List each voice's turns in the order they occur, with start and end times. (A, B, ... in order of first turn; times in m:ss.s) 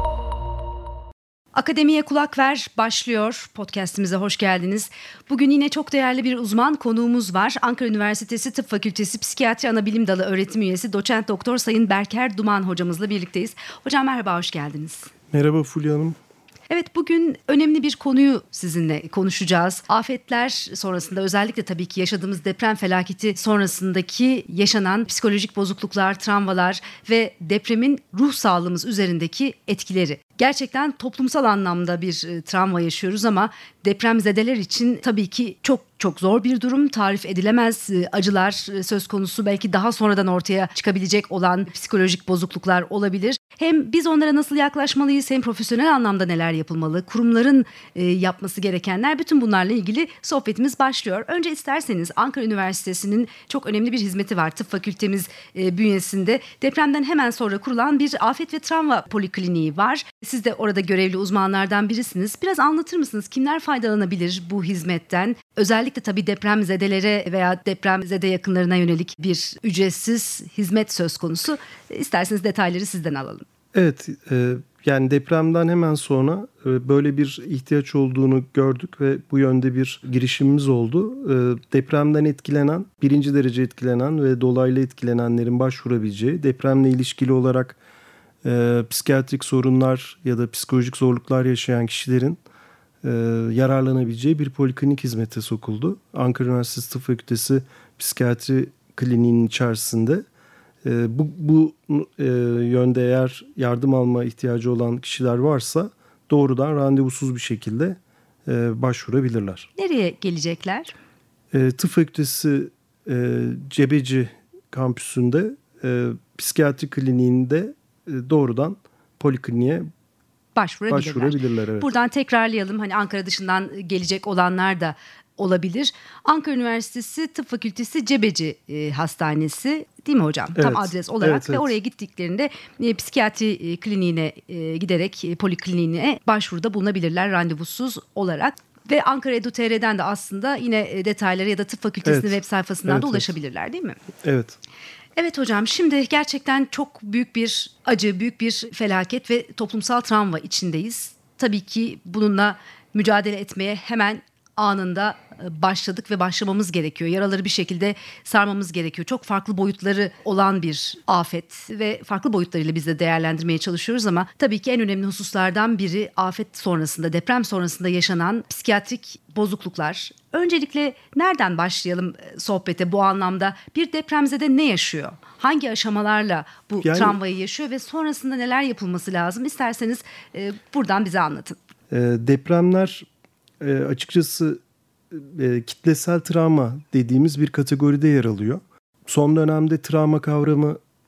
0:01.5-0:15.1 A
0:15.3-0:16.2 B
0:16.7-1:13.4 A
1:13.7-1:27.8 B
1:28.4-1:32.4 B
1:33.0-1:40.2 B
1:40.8-1:49.7 B
1:49.8-1:50.9 A
1:51.5-1:59.8 B
2:00.6-2:24.0 A
2:00.9-2:01.9 B
2:10.6-2:11.7 B
2:22.0-2:23.3 B
2:24.2-2:24.6 B
2:25.2-3:01.6 A
2:56.8-2:57.2 B
3:01.9-3:03.0 B
3:03.6-3:10.8 B